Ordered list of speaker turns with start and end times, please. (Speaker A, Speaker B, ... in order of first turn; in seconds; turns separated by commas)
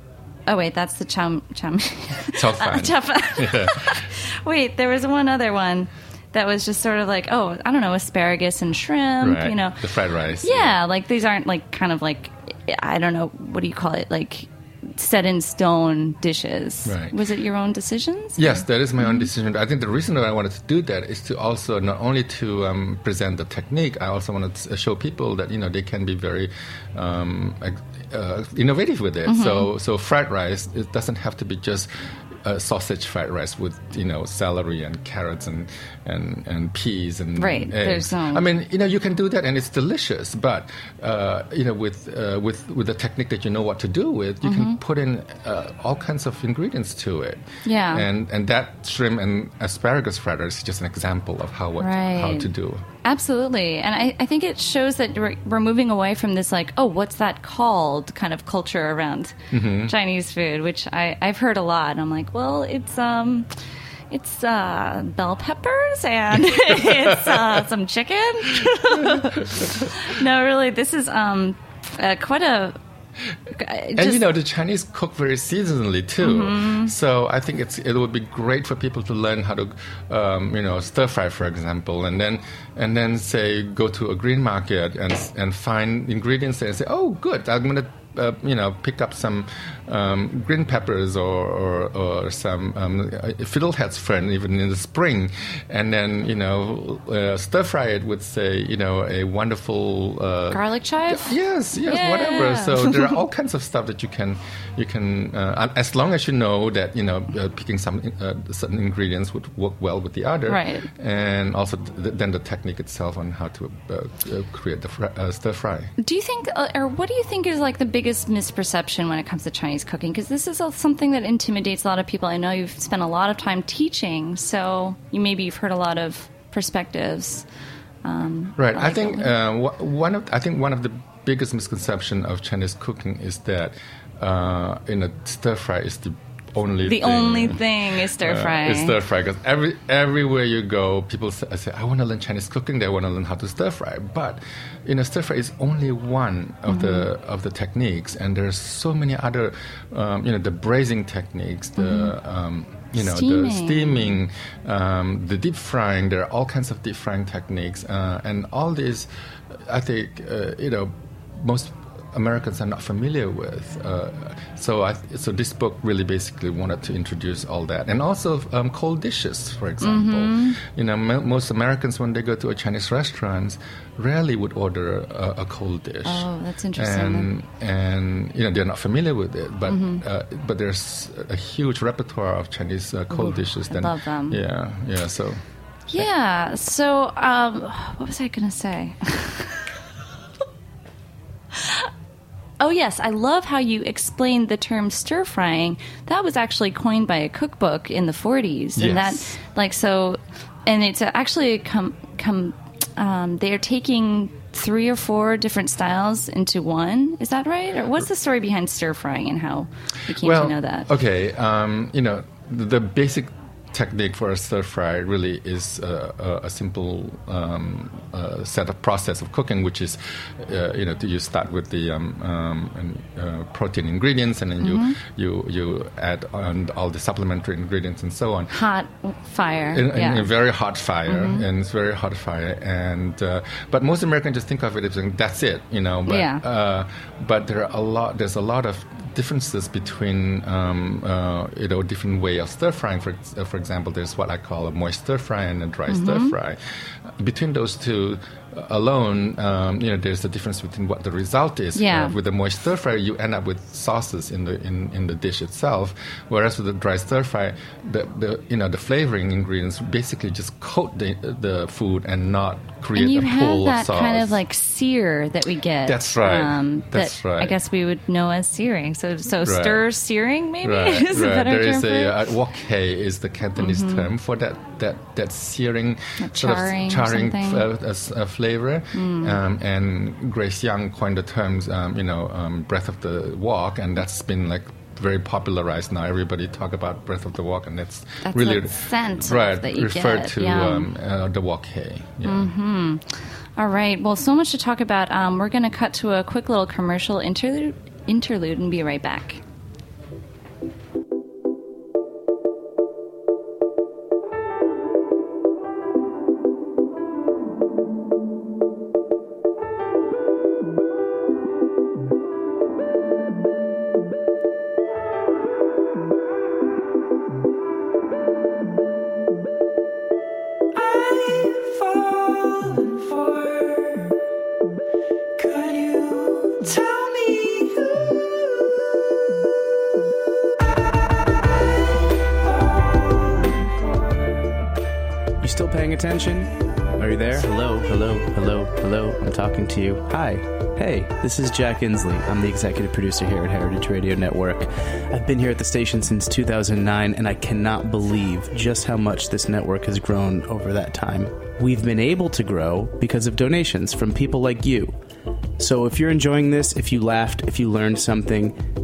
Speaker A: 0.5-9.8, Speaker B: 2.3-4.0, Speaker B: 9.2-10.8, Speaker A: 10.4-19.3, Speaker B: 16.8-17.2, Speaker B: 18.4-31.9, Speaker A: 29.2-29.7, Speaker B: 32.4-52.8, Speaker A: 37.4-38.5, Speaker A: 44.4-44.8, Speaker A: 47.6-48.1, Speaker A: 51.8-52.5, Speaker A: 53.0-63.5, Speaker B: 59.5-59.9, Speaker A: 64.1-72.8, Speaker B: 66.4-67.7, Speaker B: 68.4-69.9, Speaker A: 73.5-74.3, Speaker B: 73.9-115.9, Speaker A: 76.2-76.9, Speaker A: 100.5-103.2, Speaker A: 110.5-110.9, Speaker A: 116.0-127.5, Speaker A: 128.0-129.3, Speaker B: 128.6-159.1, Speaker A: 136.8-139.0, Speaker A: 146.7-147.1, Speaker A: 151.8-152.1, Speaker A: 153.0-154.1, Speaker B: 159.6-185.4, Speaker A: 169.8-170.6, Speaker A: 176.0-177.3, Speaker A: 179.7-180.0, Speaker A: 183.1-184.4, Speaker A: 185.9-189.6, Speaker A: 191.5-191.9, Speaker A: 192.6-210.9, Speaker B: 198.8-199.3, Speaker B: 210.1-228.5, Speaker A: 224.6-225.0, Speaker A: 228.5-230.3, Speaker B: 229.7-264.4, Speaker A: 231.1-231.4, Speaker A: 236.1-236.4, Speaker A: 245.9-246.3, Speaker A: 251.7-252.2, Speaker A: 262.9-272.2, Speaker B: 265.9-267.6, Speaker B: 269.4-269.9, Speaker B: 270.6-292.5, Speaker A: 273.6-274.1, Speaker A: 276.2-277.7, Speaker A: 278.9-279.4, Speaker A: 288.2-290.9, Speaker A: 292.2-299.4, Speaker C: 335.4-354.9, Speaker C: 355.6-358.6